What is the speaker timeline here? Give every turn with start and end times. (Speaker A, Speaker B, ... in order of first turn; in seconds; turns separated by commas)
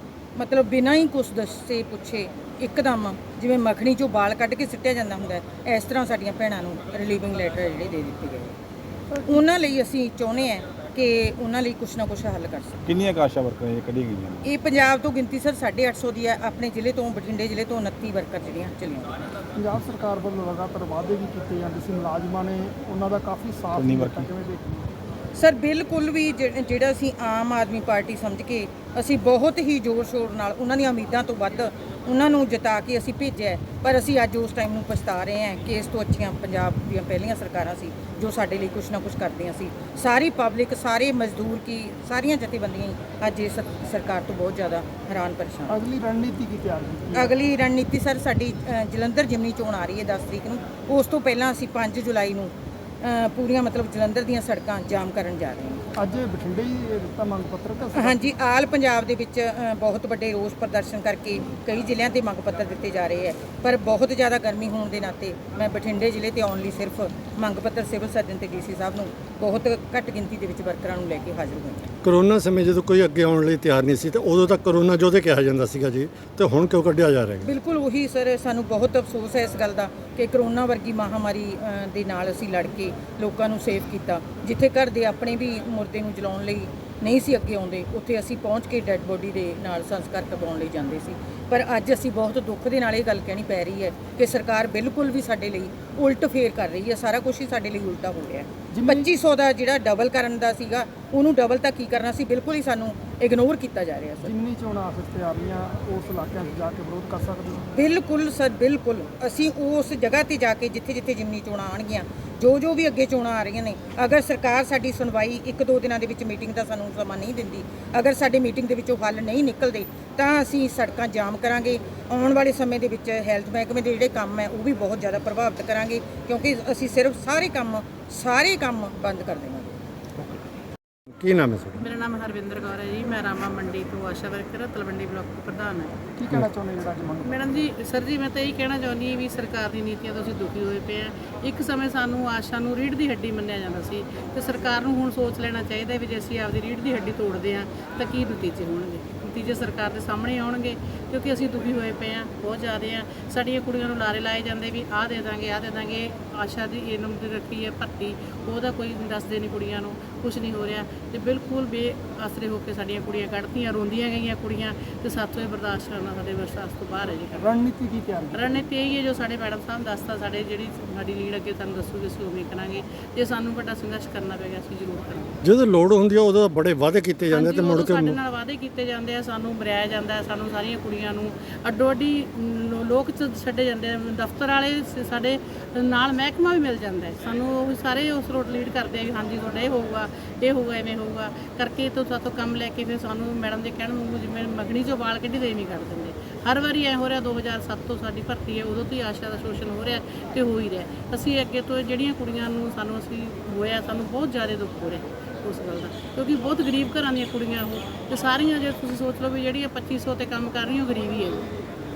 Speaker A: 0.4-8.6, Speaker B: 9.1-9.4, Speaker A: 9.3-12.8, Speaker C: 12.9-14.5, Speaker A: 14.4-19.3, Speaker B: 19.6-24.9, Speaker C: 23.8-24.3, Speaker A: 25.4-45.8, Speaker B: 45.7-47.3, Speaker A: 47.1-55.8, Speaker B: 56.0-58.3, Speaker A: 57.9-71.9, Speaker D: 72.0-77.5, Speaker A: 77.4-104.3, Speaker B: 98.7-99.1, Speaker B: 104.2-107.7, Speaker A: 107.7-129.8, Speaker D: 131.2-131.8, Speaker E: 131.8-135.9, Speaker B: 136.2-137.7, Speaker E: 137.2-167.5, Speaker B: 167.4-168.7, Speaker E: 168.3-175.4, Speaker D: 175.4-178.2, Speaker E: 177.3-211.5